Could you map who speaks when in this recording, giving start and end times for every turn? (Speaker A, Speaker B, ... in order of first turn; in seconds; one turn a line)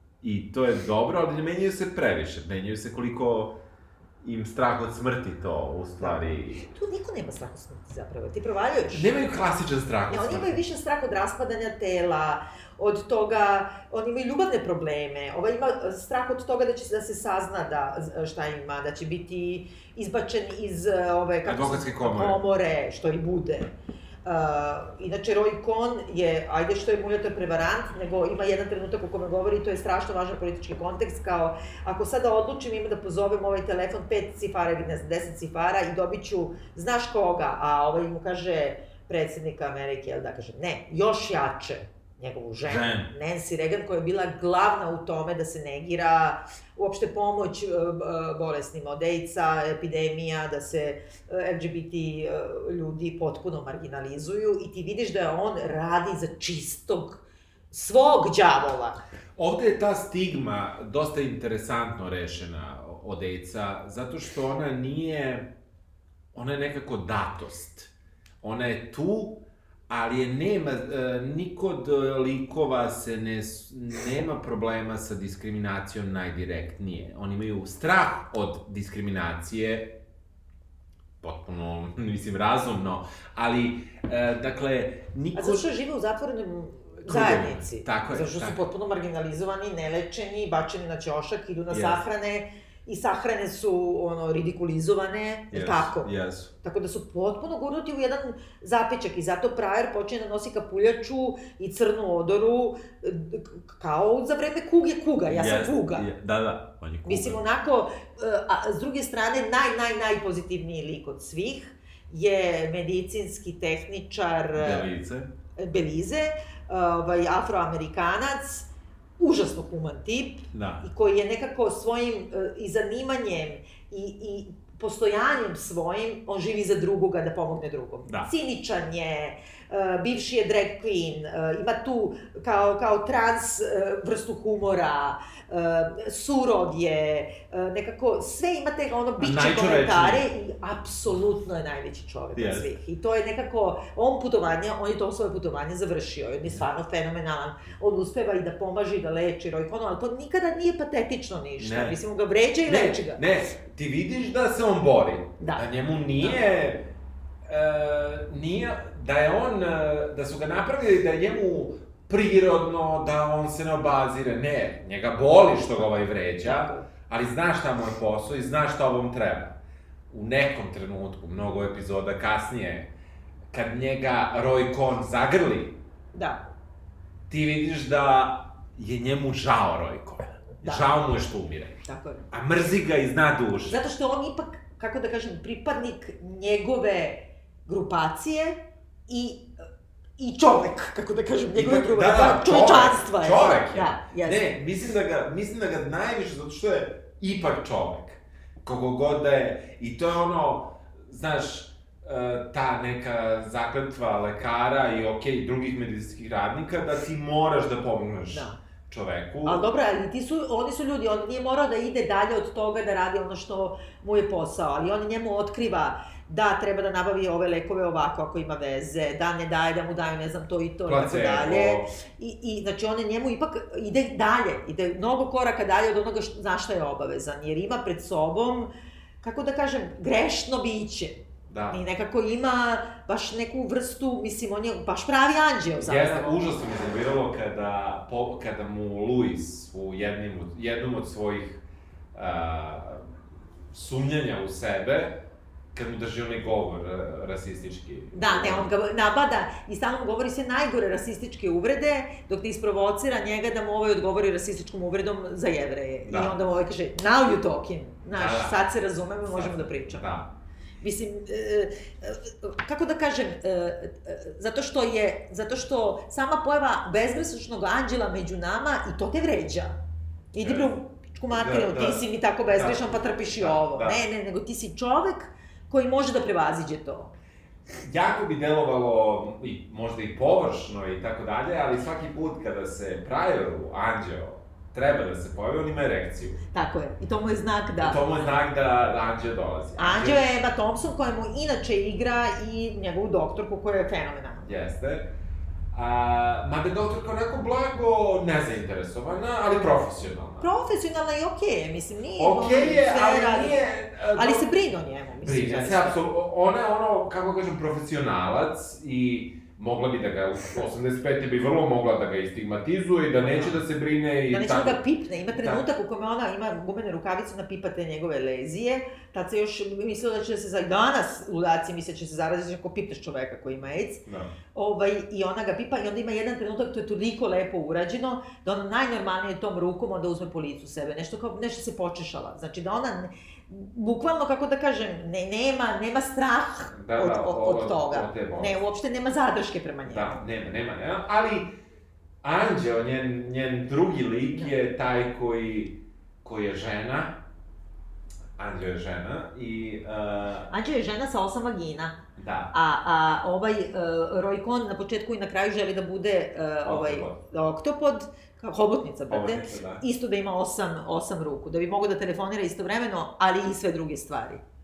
Speaker A: 0.2-3.6
Speaker A: 4.2-6.6
Speaker B: 6.0-9.2
Speaker A: 8.9-10.6
Speaker B: 10.1-23.7
Speaker A: 21.4-22.4
Speaker B: 24.2-59.0
Speaker A: 42.6-43.1
Speaker A: 59.4-65.5
Speaker A: 66.3-79.9
Speaker A: 81.2-85.7
Speaker B: 85.3-96.1
Speaker A: 87.0-88.6
Speaker A: 91.7-92.0
Speaker A: 95.5-96.5
Speaker B: 96.6-106.1
Speaker A: 105.3-107.4
Speaker B: 107.0-114.8
Speaker A: 114.5-115.3
Speaker B: 115.6-153.2
Speaker A: 120.5-120.9
Speaker A: 139.2-140.2
Speaker A: 142.3-142.7
Speaker A: 151.6-152.0
Speaker A: 152.7-156.8
Speaker B: 155.4-156.5
Speaker A: 157.4-169.6
Speaker B: 166.4-166.9
Speaker A: 170.1-172.9
Speaker A: 173.5-175.8
Speaker B: 176.1-176.4
Speaker A: 177.3-183.8
Speaker B: 180.6-181.0
Speaker B: 181.8-182.3
Speaker B: 183.7-189.5
Speaker B: 190.2-194.6
Speaker A: 191.5-209.6
Speaker B: 208.3-208.6
Speaker B: 209.4-228.7
Speaker A: 220.8-221.9
Speaker B: 229.2-236.3
Speaker A: 231.5-231.8
Speaker A: 235.8-243.1
Speaker A: 243.7-245.2
Speaker A: 245.7-248.7
Speaker B: 248.1-260.2
Speaker A: 256.0-256.3
Speaker A: 258.1-258.6
Speaker A: 259.3-260.3
Speaker B: 260.8-269.7
Speaker B: 270.3-277.1
Speaker A: 270.4-270.7
Speaker A: 271.3-274.0
Speaker A: 277.8-286.4
Speaker B: 286.5-288.4
Speaker A: 287.8-290.3
Speaker B: 289.8-294.5
Speaker A: 294.4-295.1
Speaker A: 295.7-300.5
Speaker B: 300.4-303.6
Speaker A: 302.2-304.5
Speaker B: 304.1-306.0
Speaker A: 305.2-314.8
Speaker B: 313.2-313.6
Speaker B: 314.3-324.0
Speaker A: 315.3-315.6
Speaker A: 324.1-324.3
Speaker B: 324.5-340.2
Speaker A: 336.7-338.6
Speaker A: 339.9-341.5
Speaker A: 342.2-347.2
Speaker A: 348.4-350.5
Speaker B: 350.5-352.0
Speaker A: 352.2-352.5
Speaker B: 352.5-364.4
Speaker A: 356.6-357.2
Speaker A: 359.1-359.8